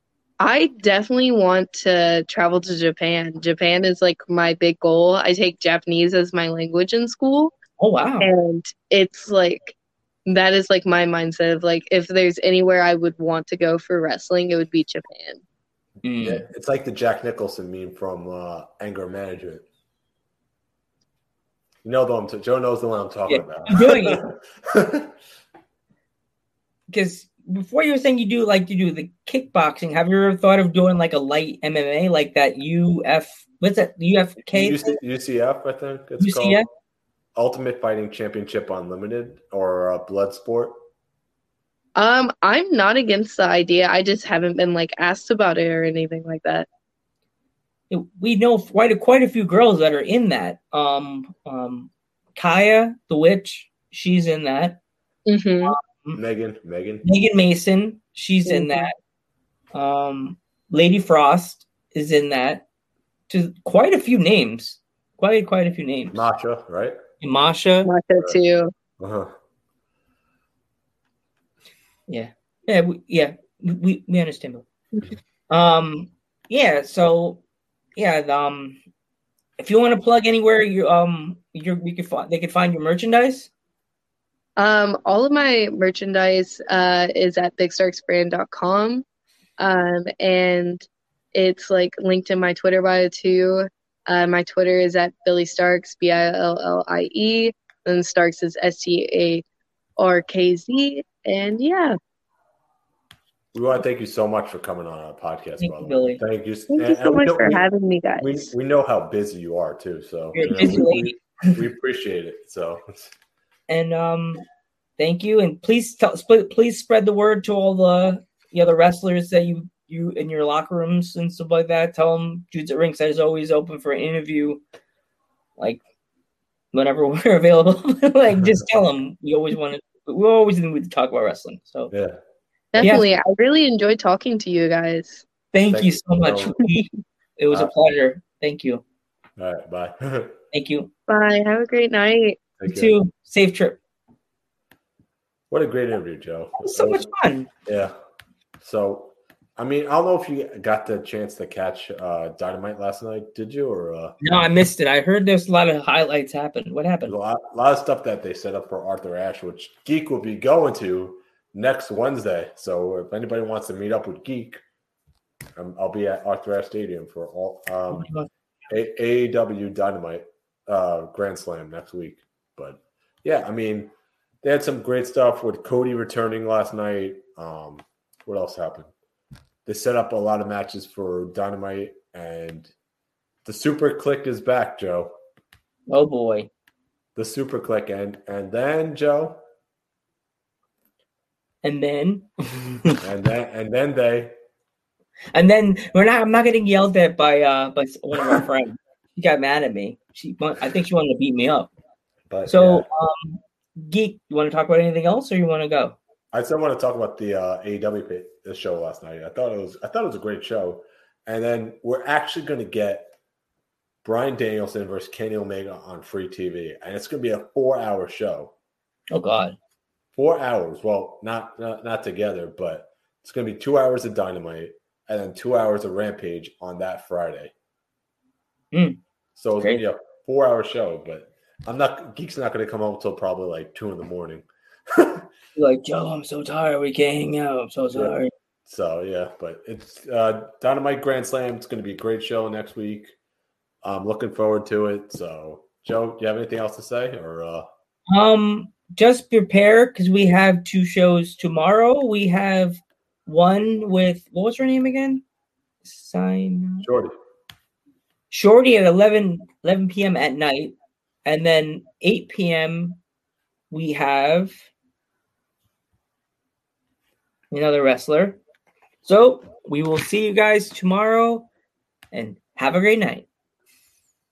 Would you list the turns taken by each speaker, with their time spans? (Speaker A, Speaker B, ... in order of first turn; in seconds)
Speaker A: 0.4-7.5, 8.2-15.4, 42.0-46.7, 55.3-55.8, 58.5-58.9, 67.8-68.7, 84.6-89.0, 89.6-99.4, 100.0-102.0, 106.7-108.5, 132.7-135.3, 141.1-142.4
Speaker B: 7.8-8.3, 16.0-16.4, 23.3-24.2, 26.9-35.0, 36.2-36.7, 47.9-54.8, 55.6-56.2, 57.0-59.0, 59.7-62.6, 63.3-66.2, 67.2-67.9, 72.1-74.7, 75.5-77.4, 78.0-78.8, 79.6-83.5, 105.6-106.2, 110.3-111.6, 113.7-114.4, 115.0-124.6, 126.7-131.9, 135.5-138.8, 140.5-140.9, 142.7-143.8, 146.6-147.5, 154.2-157.1, 167.9-168.3, 185.9-186.5, 191.6-193.0, 195.3-201.7, 202.5-206.0, 219.1-219.6, 228.7-229.0, 235.6-238.3, 248.1-255.2, 255.8-256.9, 258.3-263.0, 263.7-264.5, 267.5-268.4, 269.0-271.5, 272.1-273.3
Speaker C: 16.2-19.6, 21.8-25.1, 34.5-36.6, 37.4-40.8, 56.1-57.0, 66.1-67.0, 69.0-69.3, 103.5-107.7, 108.2-113.1, 131.9-132.2, 132.8-133.0, 135.7-136.6, 139.4-140.4, 142.6-142.9, 145.5-147.1, 147.7-147.9, 148.6-154.2, 157.1-164.6, 165.6-168.1, 168.7-178.9, 179.7-182.7, 183.4-185.1, 187.2-189.4, 193.0-194.3, 202.3-202.9, 206.3-213.1, 214.0-218.5, 220.2-227.5, 229.4-235.3, 237.9-243.2, 243.8-247.7, 256.8-257.1